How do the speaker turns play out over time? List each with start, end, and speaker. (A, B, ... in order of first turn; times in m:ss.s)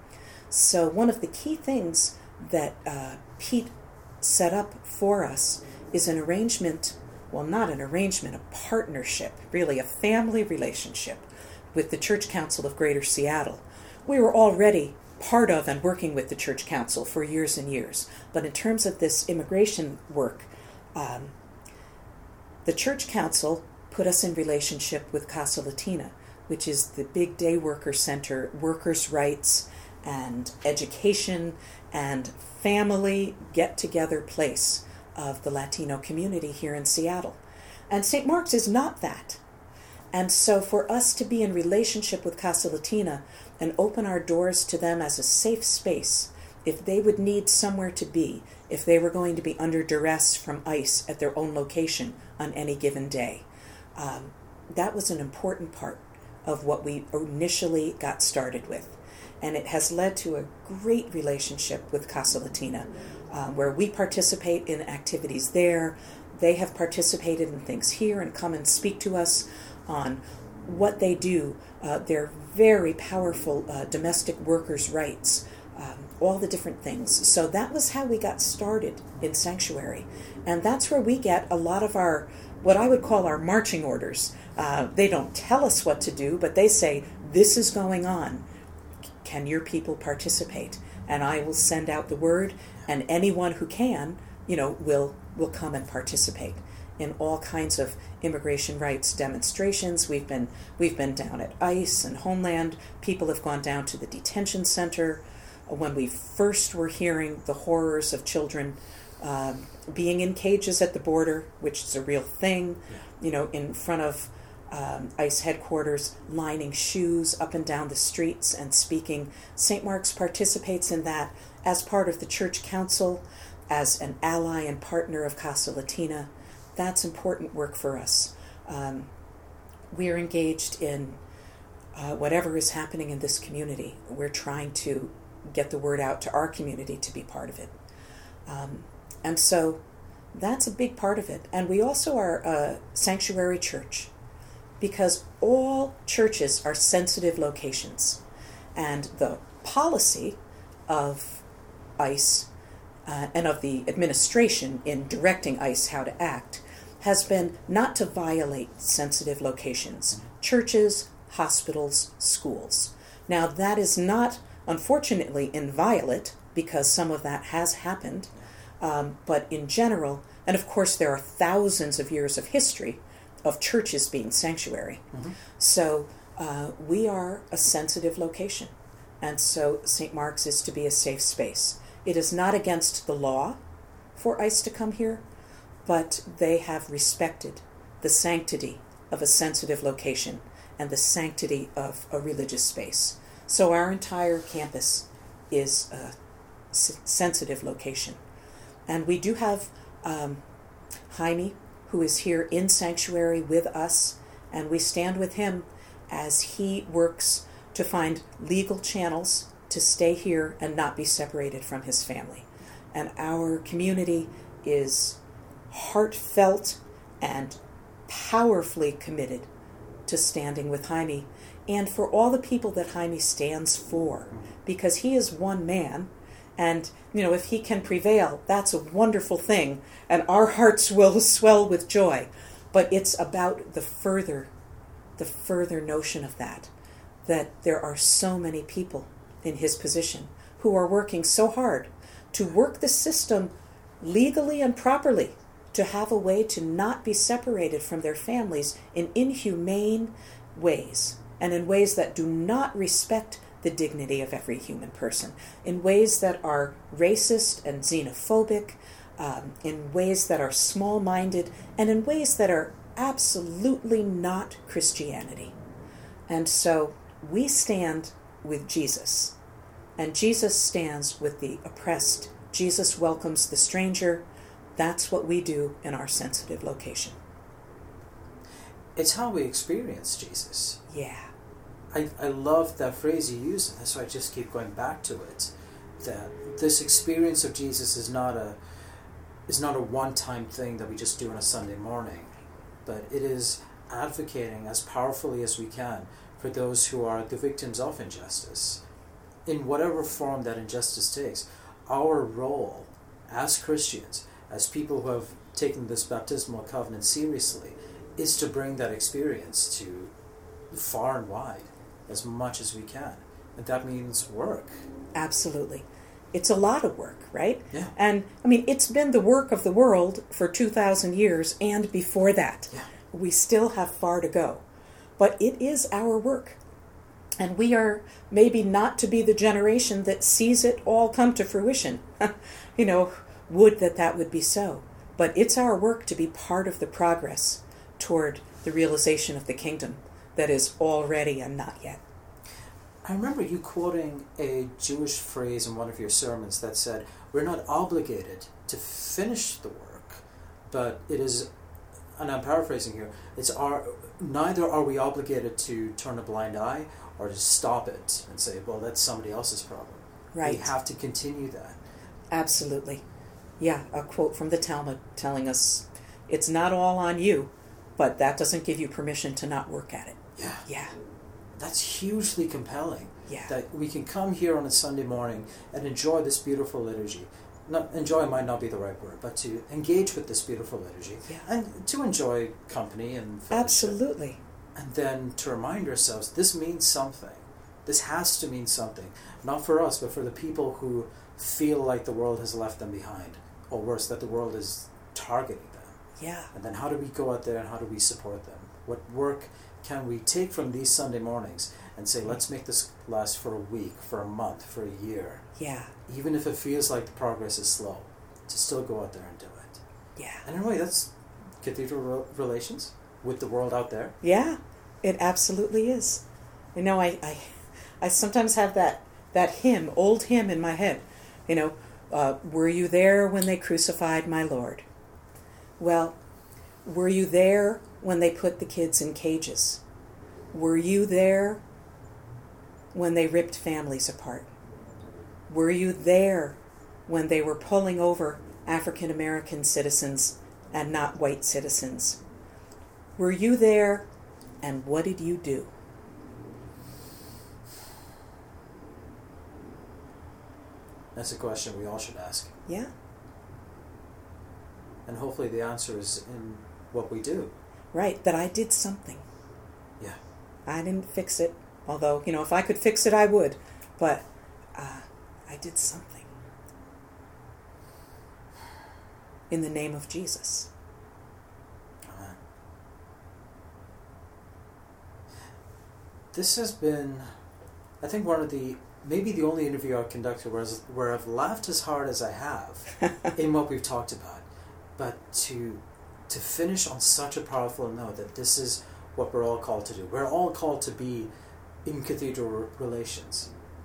0:00.5-0:21.3 A
0:22.6-0:39.4 A
0:40.1-1:28.4 A
1:29.2-2:09.1 A
2:09.9-2:11.2 A
2:11.9-2:17.7 A
2:18.4-2:19.8 A
2:20.3-2:24.1 A
2:24.8-2:28.2 A
2:28.8-2:31.4 A
2:32.0-2:32.5 A
2:33.0-3:03.6 A
3:04.2-3:05.2 A
3:05.8-3:16.2 A
3:16.7-3:18.2 A
3:18.9-3:20.4 A
3:21.1-3:35.2 A
3:35.7-3:39.5 A
3:40.1-3:54.5 A
3:55.2-3:56.7 A
3:57.2-4:25.5 A
4:26.3-4:29.3 A
4:30.0-4:37.2 A
4:39.0-4:40.8 B
4:40.9-4:41.3 A
4:41.9-4:48.6 B
4:49.5-4:52.3 B
4:52.8-4:58.8 B
4:59.4-5:10.1 B
5:10.7-5:14.8 B
5:15.1-5:24.6 A
5:25.2-5:26.6 A
5:27.4-5:42.0 A
5:43.0-5:51.5 B
5:52.2-6:01.8 B
6:00.3-6:00.7 A
6:02.3-6:03.0 A
6:03.6-6:10.9 A
6:10.4-6:10.6 B
6:11.6-6:24.0 B
6:23.5-6:24.4 A
6:24.7-6:36.0 B
6:36.2-6:36.5 A
6:36.5-6:45.4 B
6:45.6-6:45.9 A
6:46.1-6:49.8 B
6:50.2-6:50.4 A
6:50.4-6:54.2 B
6:54.2-6:56.2 A
6:56.7-7:04.8 A
7:05.8-7:06.2 A
7:06.8-7:09.8 A
7:10.5-7:11.6 A
7:12.9-7:14.5 A
7:15.5-7:22.2 A
7:23.2-7:24.1 A
7:24.6-7:25.7 A
7:31.1-7:32.5 B
7:35.0-7:37.5 B
7:37.9-7:39.2 A
7:40.7-7:46.3 A
7:49.5-7:50.7 A
7:52.0-7:52.4 B
7:56.3-7:57.3 B
7:58.0-8:04.4 B
8:05.0-8:11.3 B
8:11.8-8:13.5 B